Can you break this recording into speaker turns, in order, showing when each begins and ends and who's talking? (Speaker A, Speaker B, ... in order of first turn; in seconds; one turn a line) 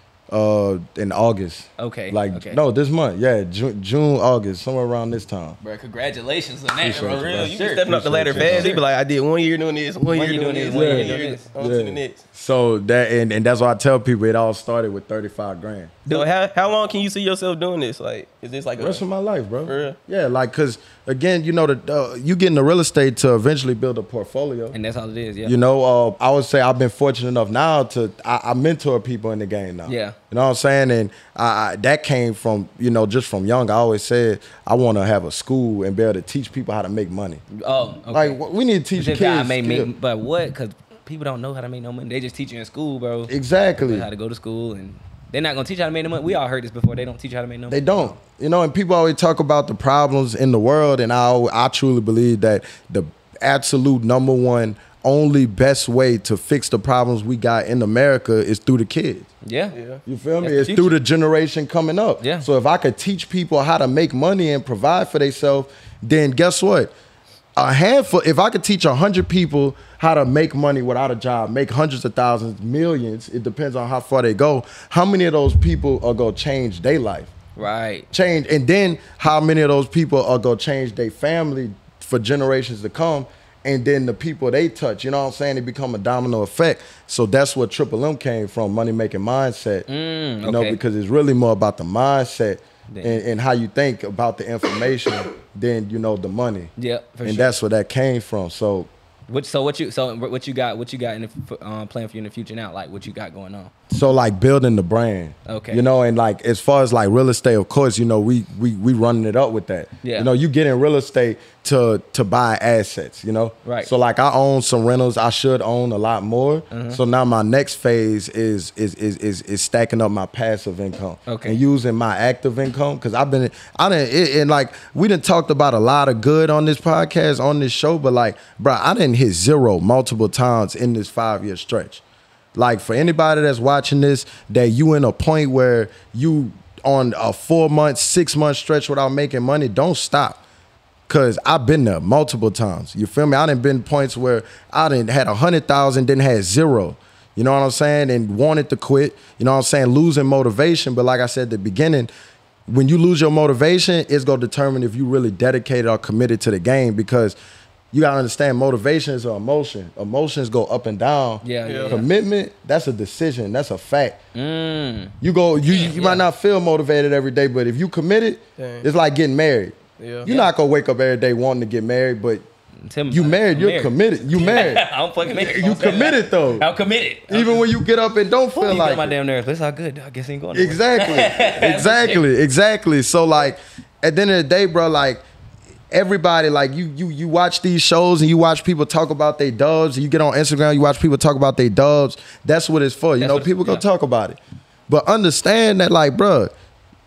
Speaker A: 0.3-5.6
Speaker B: 1.8-2.6
Speaker B: 5.6-8.8
Speaker A: 6.8-8.7
Speaker C: 6.9-12.2
Speaker B: 10.1-11.5
Speaker A: 10.7-15.9
Speaker C: 16.1-19.0
Speaker A: 18.8-24.8
Speaker C: 19.6-20.0
Speaker B: 24.7-25.5
Speaker A: 25.4-37.4
Speaker B: 29.9-30.2
Speaker B: 37.5-38.4
Speaker A: 38.1-39.9
Speaker B: 39.0-48.1
Speaker A: 43.3-44.1
Speaker A: 47.7-59.3
Speaker B: 59.4-59.7
Speaker C: 59.7-60.0
Speaker A: 60.0-66.9
Speaker B: 60.4-61.0
Speaker B: 62.2-62.5
Speaker A: 67.6-77.3
Speaker B: 77.5-78.1
Speaker A: 78.1-89.8
Speaker B: 89.9-90.8
Speaker A: 90.4-96.7
Speaker B: 92.9-93.2
Speaker B: 96.8-97.5
Speaker A: 97.2-98.9
Speaker B: 99.3-103.7
Speaker A: 103.9-132.0
Speaker B: 105.5-105.8
Speaker B: 110.0-110.3
Speaker B: 113.6-113.9
Speaker B: 116.7-117.0
Speaker B: 121.3-121.6
Speaker A: 132.5-140.4
Speaker A: 141.1-152.1
Speaker A: 152.7-157.4
Speaker A: 157.9-164.2
Speaker B: 161.4-162.1
Speaker C: 161.6-161.9
Speaker B: 164.3-165.1
Speaker A: 165.2-172.4
Speaker B: 165.7-166.2
Speaker C: 168.6-168.8
Speaker C: 170.0-170.3
Speaker B: 172.8-177.6
Speaker A: 173.1-174.8
Speaker C: 174.4-176.2
Speaker A: 175.5-176.7
Speaker A: 177.3-179.2
Speaker B: 178.6-182.2
Speaker A: 180.5-185.2
Speaker A: 185.9-196.5
Speaker B: 193.2-193.8